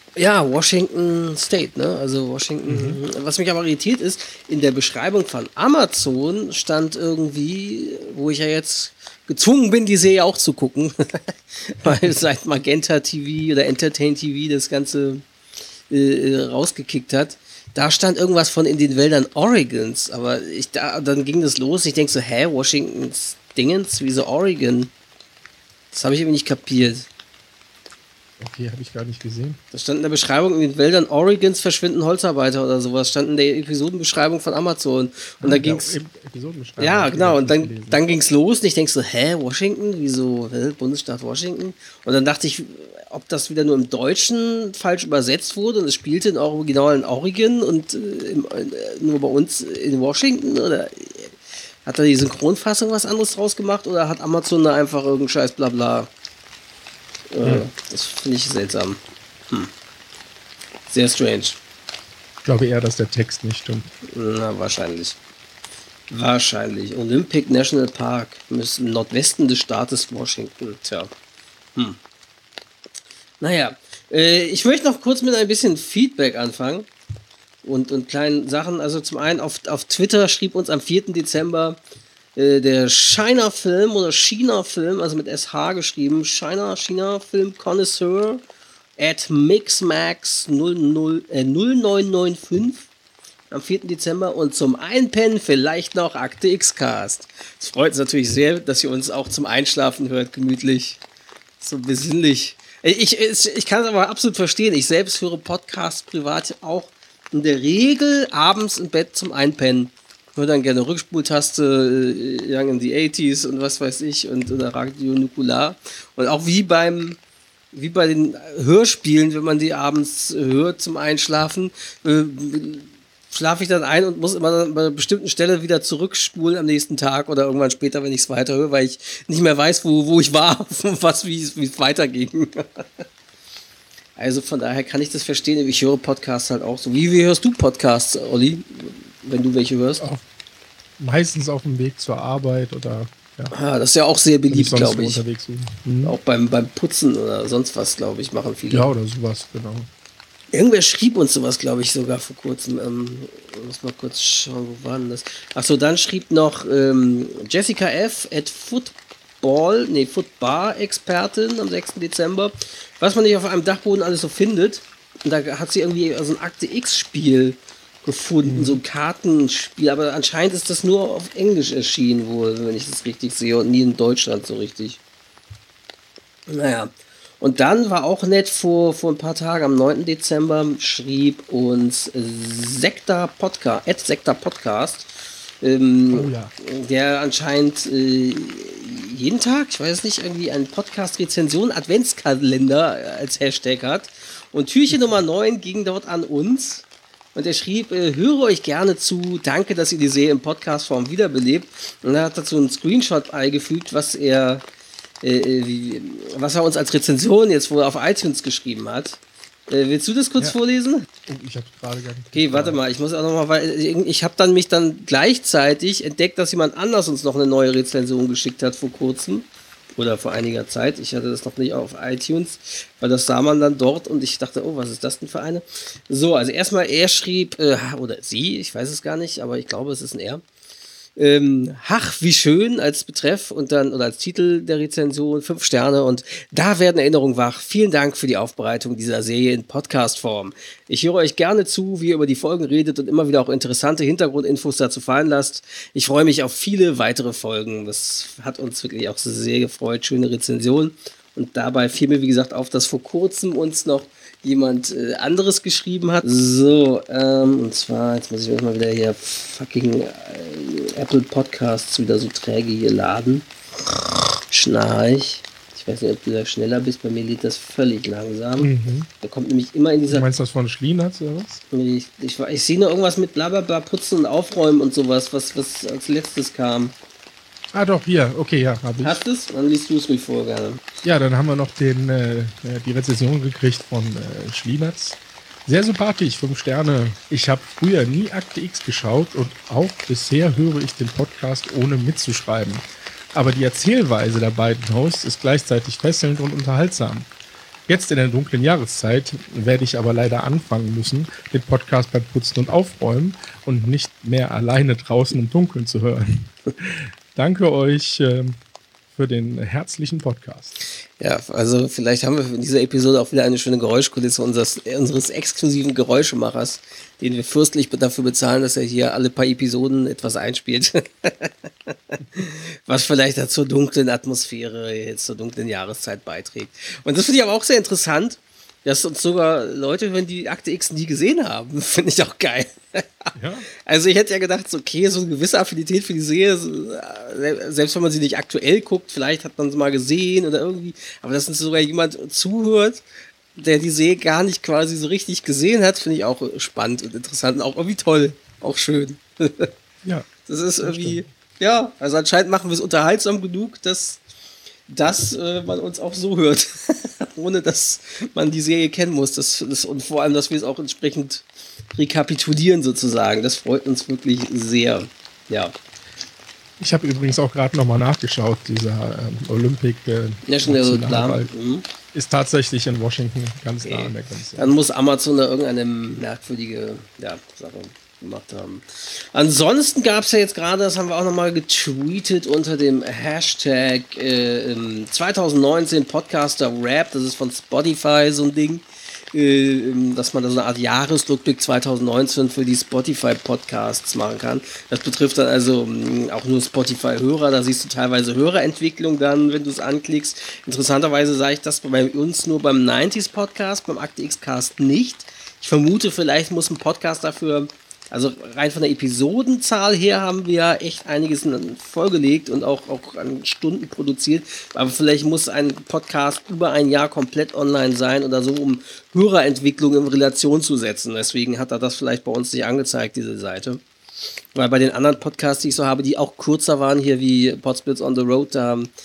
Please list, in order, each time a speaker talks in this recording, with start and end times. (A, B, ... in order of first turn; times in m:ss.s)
0:00.2-0:15.2 A
0:02.7-0:03.0 B
0:15.9-0:24.9 A
0:25.9-0:27.1 A
0:28.4-0:29.6 B
0:29.7-0:35.9 A
0:35.4-0:38.0 B
0:36.8-0:56.1 A
0:57.3-0:59.0 A
1:00.9-1:01.6 A
1:02.4-1:03.9 B
1:04.0-1:05.2 A
1:06.1-1:11.1 A
1:13.4-1:16.9 A
1:17.6-1:21.8 A
1:22.4-1:28.4 A
1:29.0-1:32.9 A
1:33.5-1:41.0 A
1:41.6-1:57.2 A
1:57.7-2:12.8 A
2:14.2-2:20.0 A
2:21.0-2:23.5 B
2:23.5-2:25.2 A
2:24.5-2:26.2 B
2:26.0-2:28.9 A
2:28.7-2:29.9 B
2:30.5-2:55.0 A
2:48.4-2:48.8 B
2:56.5-3:05.1 A
3:05.6-3:24.6 A
3:06.1-3:06.5 B
3:25.2-3:31.1 A
3:31.2-3:32.8 B
3:32.3-3:50.4 A
3:51.2-4:23.5 A
4:24.5-4:30.3 A
4:28.6-4:29.1 B
4:30.1-4:31.6 B
4:31.7-4:36.9 A
4:37.7-4:39.2 B
4:39.0-4:40.8 A
4:41.0-4:57.3 B
4:57.9-5:08.6 B
5:09.1-5:10.7 B
5:11.2-5:33.3 A
5:33.3-5:33.7 B
5:33.8-5:49.7 A
5:50.0-5:50.3 B
5:50.5-5:54.2 A
5:50.8-5:51.2 B
5:54.9-6:05.7 A
6:06.8-6:11.5 B
6:10.4-6:11.8 A
6:12.1-6:14.7 B
6:13.8-7:03.8 A
7:04.5-7:08.9 A